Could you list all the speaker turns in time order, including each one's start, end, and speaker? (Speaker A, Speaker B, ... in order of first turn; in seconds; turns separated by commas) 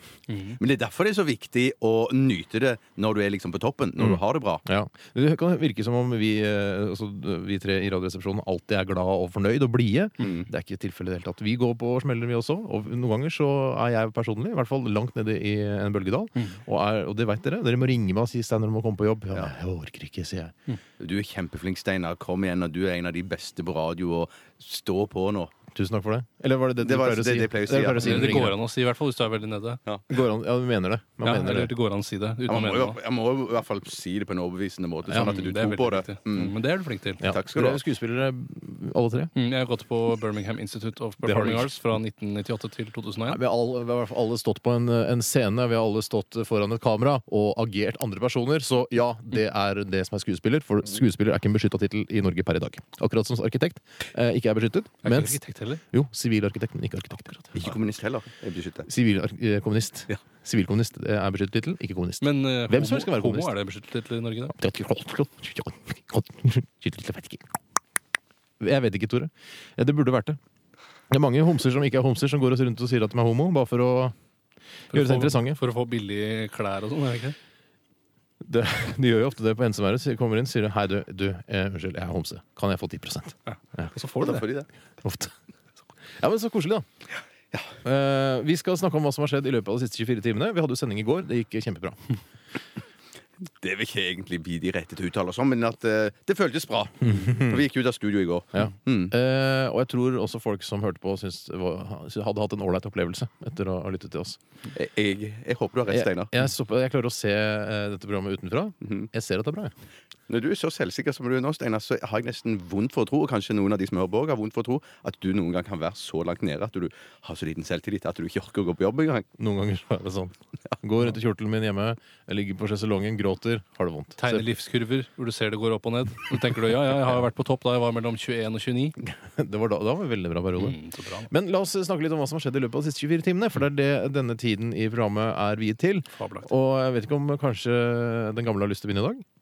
Speaker A: 0.3-0.6, Speaker B: 0.5-4.6, Speaker C: 4.0-20.5, Speaker B: 21.0-25.5, Speaker C: 25.7-28.5, Speaker B: 26.8-28.4, Speaker A: 28.0-29.8, Speaker C: 30.1-31.7, Speaker A: 31.2-33.0, Speaker B: 32.5-36.5, Speaker A: 35.1-37.2, Speaker C: 37.2-39.3, Speaker B: 37.2-37.8, Speaker A: 39.3-43.4, Speaker C: 41.2-41.7, Speaker C: 43.3-55.4, Speaker A: 55.0-55.8, Speaker C: 55.9-57.7, Speaker B: 57.5-58.9, Speaker C: 58.9-63.5, Speaker A: 62.2-64.5, Speaker C: 64.5-67.4, Speaker C: 68.6-70.4, Speaker C: 71.1-74.1, Speaker C: 74.9-75.6, Speaker A: 74.9-77.3, Speaker C: 78.4-83.9, Speaker A: 83.5-84.4, Speaker B: 84.2-84.7, Speaker C: 85.0-85.3, Speaker C: 86.2-86.8, Speaker C: 87.8-92.1, Speaker B: 93.6-99.1, Speaker C: 97.0-97.6, Speaker C: 98.5-104.4, Speaker B: 104.7-106.5, Speaker C: 105.9-109.7, Speaker B: 108.8-109.1, Speaker B: 110.3-119.3, Speaker C: 119.4-124.5, Speaker A: 124.2-129.0, Speaker C: 129.4-139.2, Speaker A: 130.6-131.3, Speaker A: 136.1-136.5